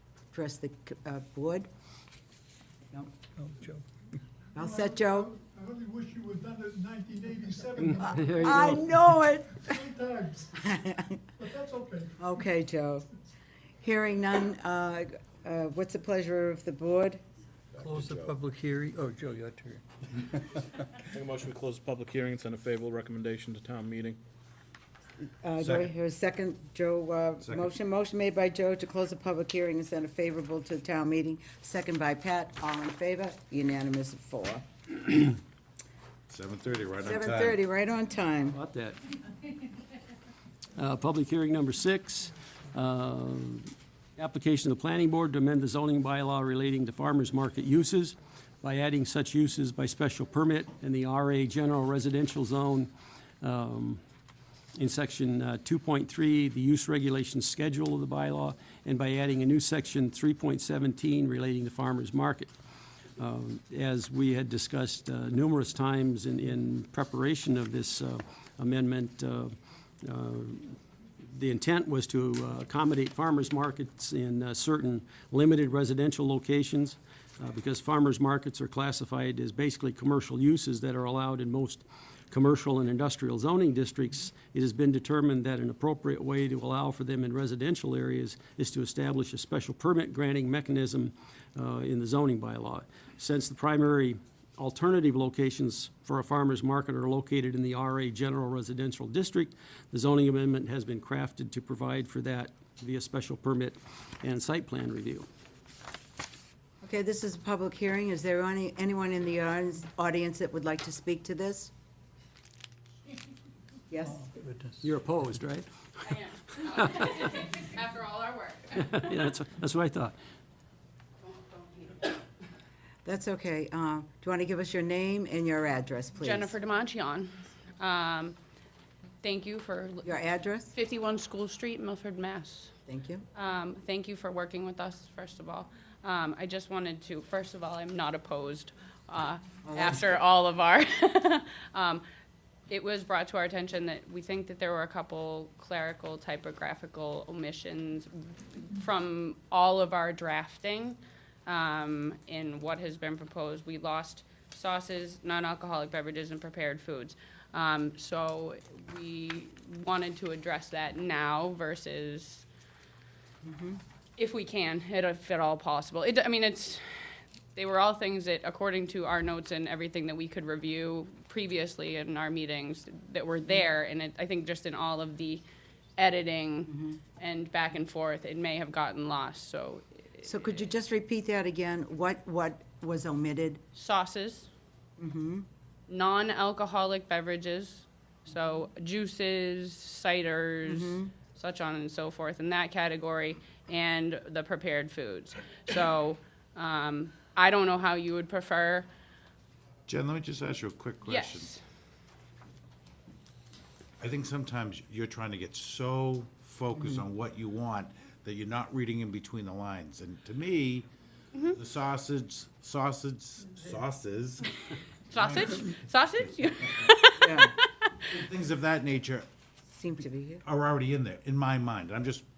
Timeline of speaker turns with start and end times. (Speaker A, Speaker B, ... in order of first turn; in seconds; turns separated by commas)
Speaker A: 0.3-1.7, Speaker B: 3.4-3.9, Speaker A: 4.5-5.3, Speaker C: 4.6-8.9, Speaker D: 8.0-8.8, Speaker A: 8.3-9.8, Speaker C: 9.7-10.5, Speaker A: 10.6-11.2, Speaker C: 11.4-12.2, Speaker A: 12.2-13.1, Speaker A: 13.8-17.2, Speaker B: 17.8-19.8, Speaker E: 18.0-18.3, Speaker F: 21.1-24.2, Speaker A: 25.4-34.6, Speaker E: 25.6-25.9, Speaker E: 27.4-27.7, Speaker E: 36.3-37.6, Speaker A: 37.0-38.6, Speaker D: 38.5-39.0, Speaker D: 40.8-52.9, Speaker D: 53.4-54.0, Speaker D: 54.8-62.5, Speaker D: 63.2-70.8, Speaker D: 71.3-105.3, Speaker A: 106.8-111.7, Speaker A: 113.9-114.3, Speaker B: 114.3-114.8, Speaker D: 114.8-116.1, Speaker G: 116.0-119.1, Speaker D: 116.8-117.1, Speaker D: 118.8-120.2, Speaker G: 121.2-122.2, Speaker A: 123.0-126.5, Speaker G: 126.2-128.4, Speaker G: 129.2-130.1, Speaker A: 130.1-130.7, Speaker G: 130.7-132.7, Speaker A: 132.9-133.2, Speaker G: 133.3-142.0, Speaker A: 139.7-140.2, Speaker G: 142.7-162.4, Speaker A: 163.4-163.8, Speaker G: 164.2-175.4, Speaker G: 176.0-180.2, Speaker A: 176.7-177.0, Speaker A: 180.2-183.6, Speaker G: 183.7-184.5, Speaker A: 185.0-185.5, Speaker G: 185.9-198.9, Speaker A: 190.7-191.1, Speaker E: 199.9-201.5, Speaker G: 201.1-201.6, Speaker E: 204.0-210.9, Speaker A: 206.8-207.0, Speaker E: 211.4-214.5, Speaker G: 215.1-218.0, Speaker E: 215.2-215.7, Speaker A: 217.2-217.6, Speaker E: 218.1-219.3, Speaker A: 219.7-220.4, Speaker E: 220.4-222.3